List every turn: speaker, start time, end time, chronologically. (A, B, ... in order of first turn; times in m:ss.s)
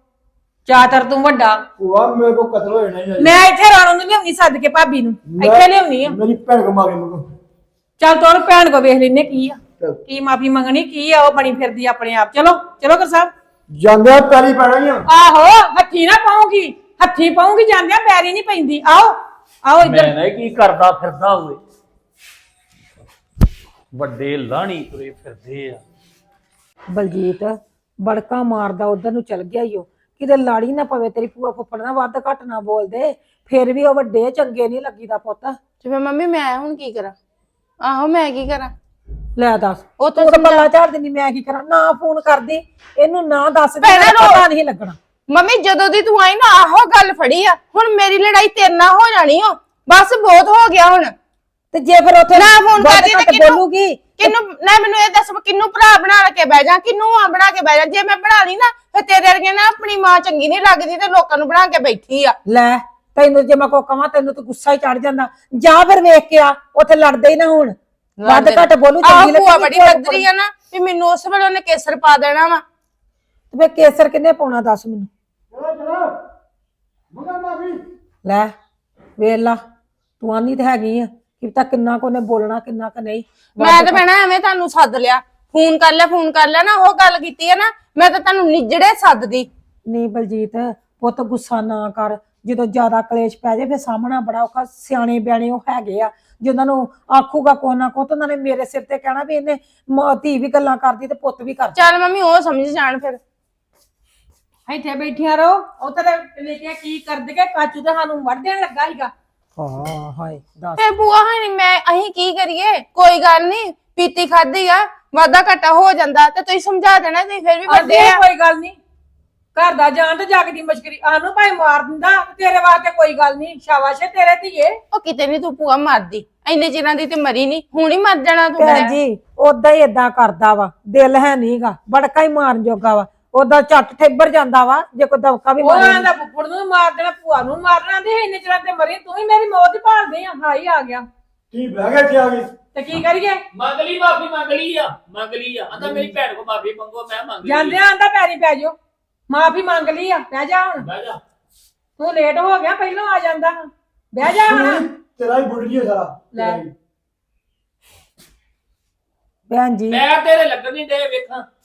0:00.6-0:01.6 A
0:01.8-0:03.3 B
0:03.2-0:06.2 A
0:05.3-0:07.2 B
0:08.0-0:13.3 A
0:13.7-0:15.0 B
0:15.1-0:20.1 A
0:19.8-0:21.6 C
0:23.9-0:25.8 C
0:26.9-0:35.6 D
0:35.8-0:37.2 E
0:37.8-0:38.7 E
0:39.4-0:45.0 D
0:40.0-0:40.7 E
0:43.8-0:44.4 E
0:45.3-0:51.1 E
0:51.7-0:54.4 D
0:52.3-0:53.6 E
0:54.2-1:02.4 E
1:02.4-1:10.2 D
1:08.2-1:12.6 E
1:13.5-1:15.1 D
1:15.5-1:16.1 B
1:17.1-1:17.8 B
1:18.2-1:18.5 D
1:19.2-1:19.6 D
1:20.2-1:24.0 D
1:23.6-1:29.5 E
1:29.9-1:41.8 D
1:41.8-1:43.2 E
1:44.7-1:49.1 A
1:49.6-1:50.8 D
1:50.8-1:58.2 E
1:57.7-1:58.8 A
1:59.5-2:04.8 A
2:04.9-2:08.9 E
2:08.6-2:16.1 D
2:15.6-2:21.0 A
2:21.5-2:22.5 B
2:22.7-2:23.4 A
2:23.5-2:27.8 C
2:25.7-2:26.1 B
2:27.4-2:28.7 A
2:29.3-2:30.8 A
2:30.8-2:31.2 C
2:32.0-2:34.8 A
2:34.2-2:36.7 B
2:36.3-2:36.6 A
2:39.5-2:40.0 D
2:39.9-2:41.4 C